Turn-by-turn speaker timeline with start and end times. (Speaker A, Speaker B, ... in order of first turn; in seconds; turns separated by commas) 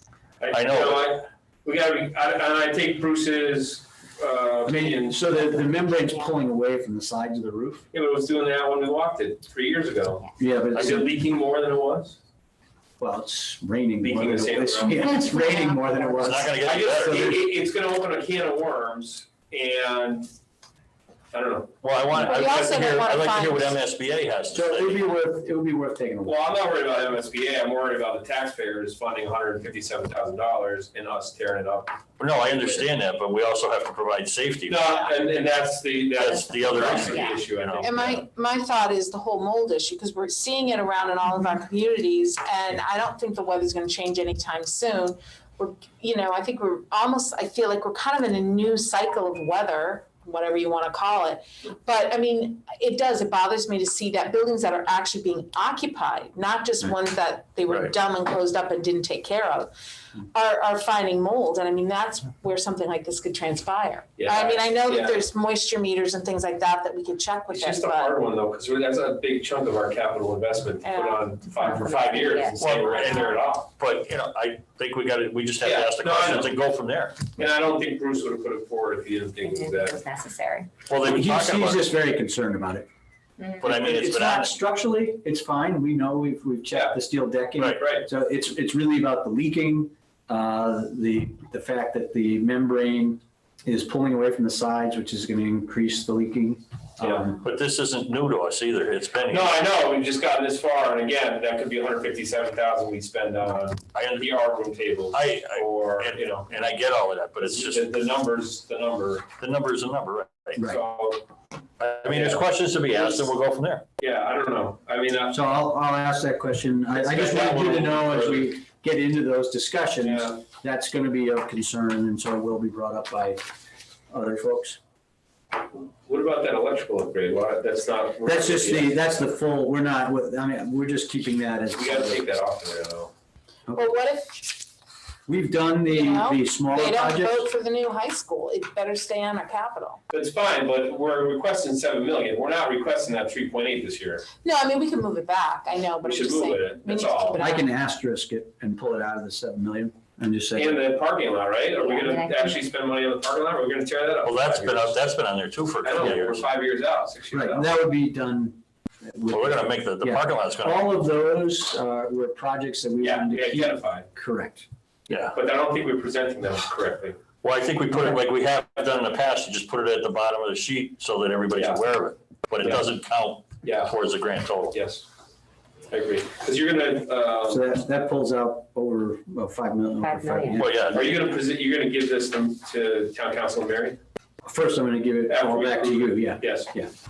Speaker A: 0.4-5.5, Speaker B: 0.5-1.2, Speaker C: 4.7-7.8, Speaker A: 7.9-12.2, Speaker C: 10.4-11.1, Speaker C: 13.0-17.4, Speaker A: 14.0-15.1, Speaker D: 15.1-16.2, Speaker B: 16.2-17.3, Speaker A: 16.6-20.3, Speaker A: 21.3-22.3, Speaker B: 21.8-25.1, Speaker E: 22.2-23.8, Speaker C: 24.5-26.4, Speaker A: 26.2-32.7, Speaker B: 32.2-34.8, Speaker A: 34.7-38.2, Speaker B: 36.1-38.2, Speaker E: 36.9-59.7, Speaker E: 60.3-68.2, Speaker A: 64.2-65.2, Speaker A: 67.5-73.7, Speaker E: 70.8-73.2, Speaker D: 71.6-72.6, Speaker B: 72.6-77.3, Speaker A: 75.6-76.6, Speaker A: 77.4-80.0, Speaker D: 79.4-80.7, Speaker B: 80.9-81.9, Speaker C: 81.0-82.9, Speaker B: 83.6-84.5, Speaker C: 83.6-97.4, Speaker A: 86.7-87.0, Speaker A: 87.7-88.1, Speaker A: 97.0-97.3, Speaker B: 97.4-99.6, Speaker A: 99.3-106.6, Speaker B: 103.9-104.3, Speaker B: 105.1-107.9, Speaker A: 107.4-109.3, Speaker B: 109.4-110.6, Speaker A: 110.6-111.2, Speaker B: 111.8-113.8, Speaker A: 112.1-113.3, Speaker A: 114.0-115.6, Speaker C: 115.3-123.5, Speaker A: 116.9-118.5, Speaker A: 120.0-120.4, Speaker C: 124.1-124.8, Speaker A: 126.0-129.2, Speaker C: 128.2-132.2, Speaker A: 131.8-133.1, Speaker E: 133.8-134.5, Speaker C: 135.3-137.5, Speaker E: 135.9-140.0, Speaker A: 140.1-144.3, Speaker E: 144.4-147.7, Speaker A: 146.0-147.4, Speaker C: 147.4-150.8, Speaker A: 150.6-155.0, Speaker D: 151.8-152.6, Speaker B: 154.2-156.4, Speaker A: 155.8-157.7, Speaker C: 157.3-164.7, Speaker B: 159.3-160.9, Speaker A: 163.0-164.1, Speaker B: 165.1-165.3, Speaker A: 165.3-167.2, Speaker B: 167.4-174.8, Speaker A: 171.5-171.9, Speaker A: 172.6-172.9, Speaker A: 173.6-173.9, Speaker A: 174.7-175.1, Speaker A: 175.9-177.7, Speaker C: 177.5-181.1, Speaker D: 180.0-180.6, Speaker B: 180.5-181.2, Speaker A: 180.9-184.0, Speaker C: 184.4-186.9, Speaker A: 185.3-186.7